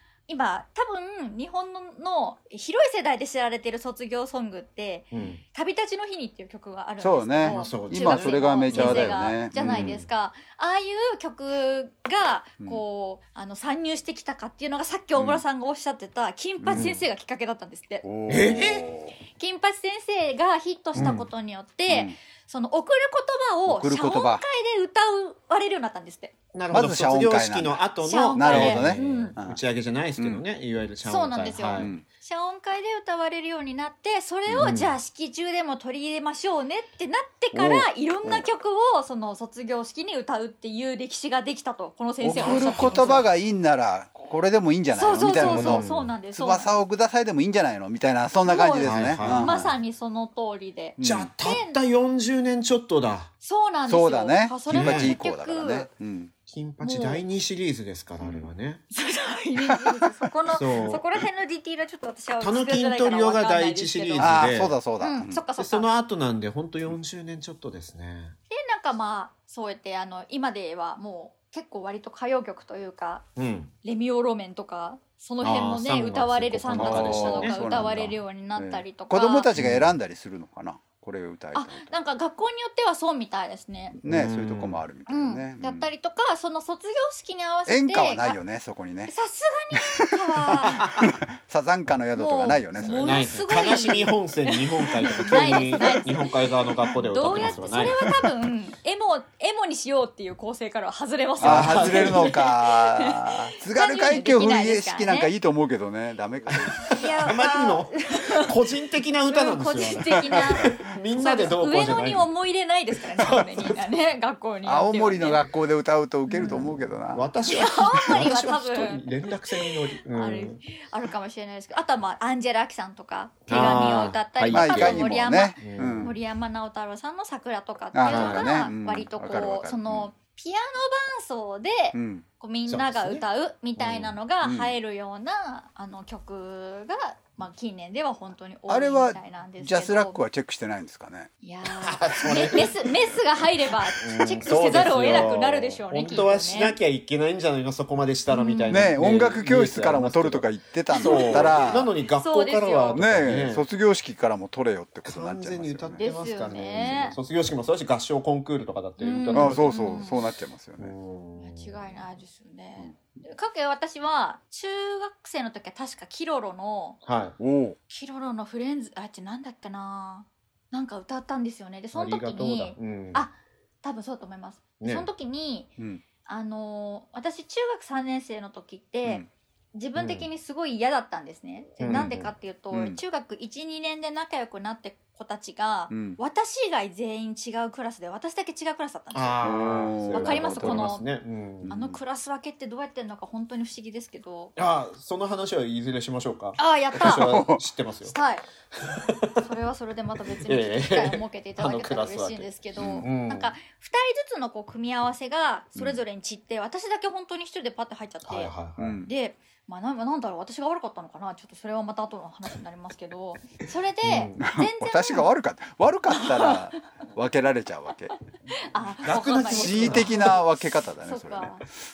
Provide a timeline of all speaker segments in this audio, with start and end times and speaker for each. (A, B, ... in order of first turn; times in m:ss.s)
0:00.3-0:18.0 A
0:05.1-0:05.4 B
0:07.0-0:10.0 C
0:07.4-0:10.1 B
0:15.1-0:15.4 C
0:16.6-0:17.0 C
0:18.0-0:19.2 C
0:18.3-0:18.8 B
0:19.3-0:26.3 A
0:21.0-0:21.3 B
0:21.9-0:22.2 C
0:23.6-0:24.4 C
0:26.5-0:31.9 B
0:26.7-0:27.8 C
0:28.0-0:29.4 A
0:28.3-0:29.6 C
0:30.2-0:30.4 C
0:31.0-0:43.3 A
0:31.7-0:32.0 C
0:34.5-0:34.7 C
0:34.6-0:35.0 B
0:37.5-0:38.4 C
0:42.2-0:49.7 C
0:42.3-0:43.3 B
0:44.9-0:46.8 A
0:45.4-0:46.1 B
0:48.4-0:51.8 A
0:48.8-0:49.7 B
0:51.0-0:51.3 C
0:51.0-0:53.3 B
0:53.4-0:55.9 A
0:53.8-0:56.3 C
0:54.7-0:55.2 B
0:56.5-0:58.8 B
0:56.8-0:57.2 A
0:58.2-0:58.5 C
0:58.9-1:05.9 A
0:59.7-1:00.6 C
1:00.5-1:01.0 B
1:02.4-1:04.8 B
1:04.2-1:05.4 C
1:05.6-1:08.4 B
1:08.5-1:13.2 A
1:13.4-1:13.7 B
1:13.8-1:19.5 A
1:15.4-1:18.0 B
1:16.7-1:21.9 C
1:19.5-1:20.0 B
1:21.5-1:24.0 A
1:24.0-1:25.8 C
1:24.0-1:24.8 B
1:25.1-1:28.4 A
1:27.6-1:29.1 C
1:29.1-1:31.0 A
1:30.0-1:34.0 C
1:32.1-1:36.3 A
1:32.8-1:38.1 B
1:35.0-1:36.1 C
1:36.8-1:45.3 A
1:36.9-1:38.1 C
1:41.4-1:42.4 B
1:41.4-1:47.3 C
1:46.5-1:52.3 B
1:46.9-1:48.5 A
1:49.3-1:55.5 A
1:50.3-1:50.7 C
1:54.6-1:57.3 C
1:56.3-1:56.7 A
1:56.3-2:00.6 B
1:57.5-2:20.2 A
1:58.0-1:58.3 C
2:03.5-2:06.1 B
2:03.5-2:06.2 C
2:07.9-2:10.1 C
2:08.0-2:08.6 B
2:11.9-2:12.2 C
2:12.6-2:14.1 B
2:14.4-2:14.7 C
2:18.7-2:21.3 C
2:21.4-2:26.8 A
2:21.7-2:22.9 B
2:24.0-2:33.6 B
2:28.3-2:28.9 A
2:28.7-2:31.9 C
2:30.9-2:33.0 A
2:32.9-2:36.0 C
2:35.0-2:40.0 B
2:36.0-2:37.2 A
2:39.0-2:40.2 A
2:39.3-2:40.9 C
2:40.8-2:41.8 B
2:41.4-2:47.0 A
2:47.0-2:47.4 B
2:47.4-2:47.8 C
2:47.9-2:55.7 A
2:51.9-2:53.3 B
2:54.8-2:55.1 B
2:55.8-2:56.0 C
2:56.2-3:09.5 A
3:00.0-3:00.3 B
3:01.8-3:02.3 B
3:01.8-3:03.0 C
3:05.9-3:06.2 C
3:09.1-3:11.7 B
3:09.4-3:10.9 C
3:10.1-3:11.1 A
3:11.6-3:12.0 C
3:11.7-3:14.5 A
3:14.6-3:18.1 B
3:16.6-3:17.4 A
3:17.0-3:17.6 C
3:18.0-3:18.4 A
3:18.9-3:19.4 B
3:19.4-3:35.3 A
3:20.4-3:23.6 B
3:22.7-3:23.1 C
3:25.8-3:26.0 C
3:28.2-3:29.0 B
3:28.8-3:29.1 C
3:34.0-3:34.4 B
3:34.4-3:38.1 C
3:36.1-3:36.7 A
3:38.7-3:40.4 A
3:39.0-3:40.4 B
3:39.4-3:41.6 C
3:41.0-3:41.6 A